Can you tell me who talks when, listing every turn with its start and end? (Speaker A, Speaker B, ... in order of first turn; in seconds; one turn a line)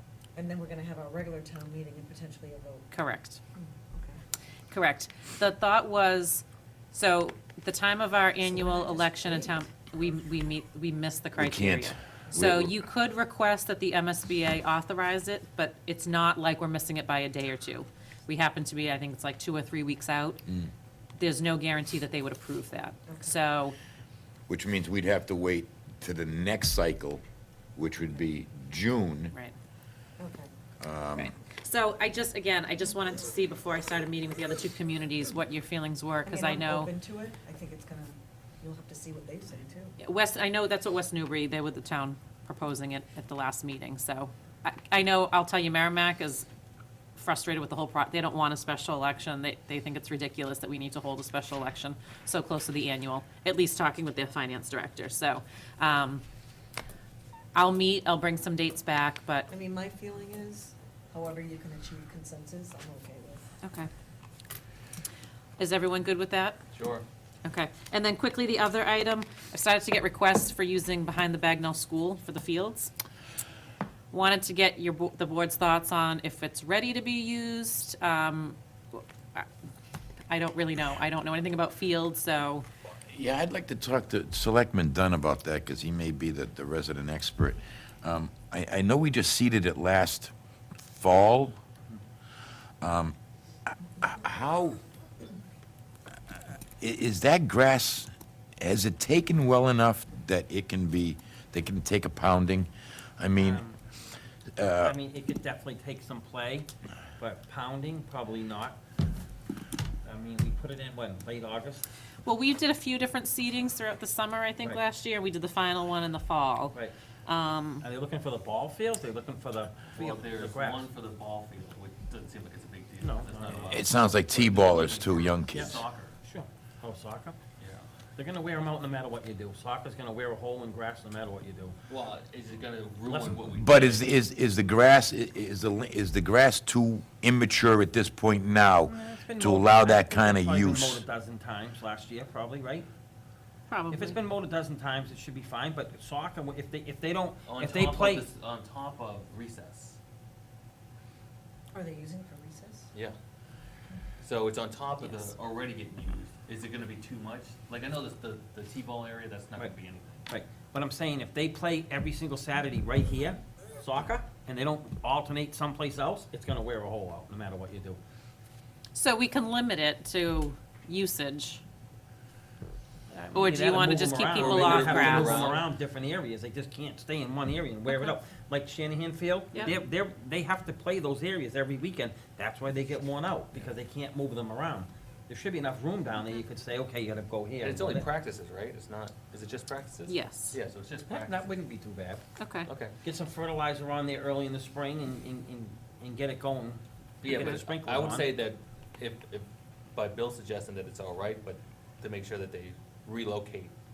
Speaker A: 0.3-2.9
Speaker B: 2.9-3.4
Speaker A: 3.5-4.2
Speaker B: 4.7-20.4
Speaker A: 8.4-9.6
Speaker C: 11.3-12.8
Speaker B: 21.2-23.7
Speaker A: 23.1-23.4
Speaker C: 24.5-27.2
Speaker C: 27.8-29.3
Speaker A: 30.2-30.5
Speaker C: 30.8-31.3
Speaker B: 31.2-36.9
Speaker A: 36.2-40.0
Speaker B: 40.0-46.5
Speaker B: 47.1-56.2
Speaker B: 57.5-59.5
Speaker A: 59.5-63.5
Speaker B: 63.6-63.9
Speaker B: 65.6-66.6
Speaker D: 66.7-67.0
Speaker B: 67.4-72.9
Speaker B: 74.1-79.5
Speaker B: 80.3-82.7
Speaker C: 83.1-90.3
Speaker C: 90.8-91.6
Speaker C: 92.8-93.1
Speaker C: 94.0-94.8
Speaker C: 96.8-103.6
Speaker E: 103.4-103.8
Speaker C: 104.5-105.0
Speaker E: 104.8-108.8
Speaker E: 110.0-111.9
Speaker B: 112.2-117.8
Speaker E: 117.8-120.8
Speaker D: 119.9-126.2
Speaker E: 123.0-123.9
Speaker C: 123.6-125.8
Speaker E: 125.5-127.4
Speaker D: 127.6-127.8
Speaker E: 128.2-131.8
Speaker D: 131.9-134.1
Speaker E: 133.0-133.7
Speaker C: 133.6-141.0
Speaker E: 138.8-142.9
Speaker B: 143.7-144.2
Speaker E: 143.9-148.3
Speaker D: 147.4-150.0
Speaker A: 151.7-152.9
Speaker D: 154.2-160.3
Speaker E: 160.3-168.0
Speaker B: 168.9-171.6
Speaker E: 173.1-188.1
Speaker B: 173.3-175.4
Speaker D: 174.2-175.7
Speaker D: 187.6-191.5
Speaker B: 190.1-190.6
Speaker E: 191.1-192.2
Speaker B: 192.4-192.7
Speaker D: 192.6-192.9
Speaker E: 193.0-198.4
Speaker D: 197.2-203.7
Speaker B: 197.3-197.7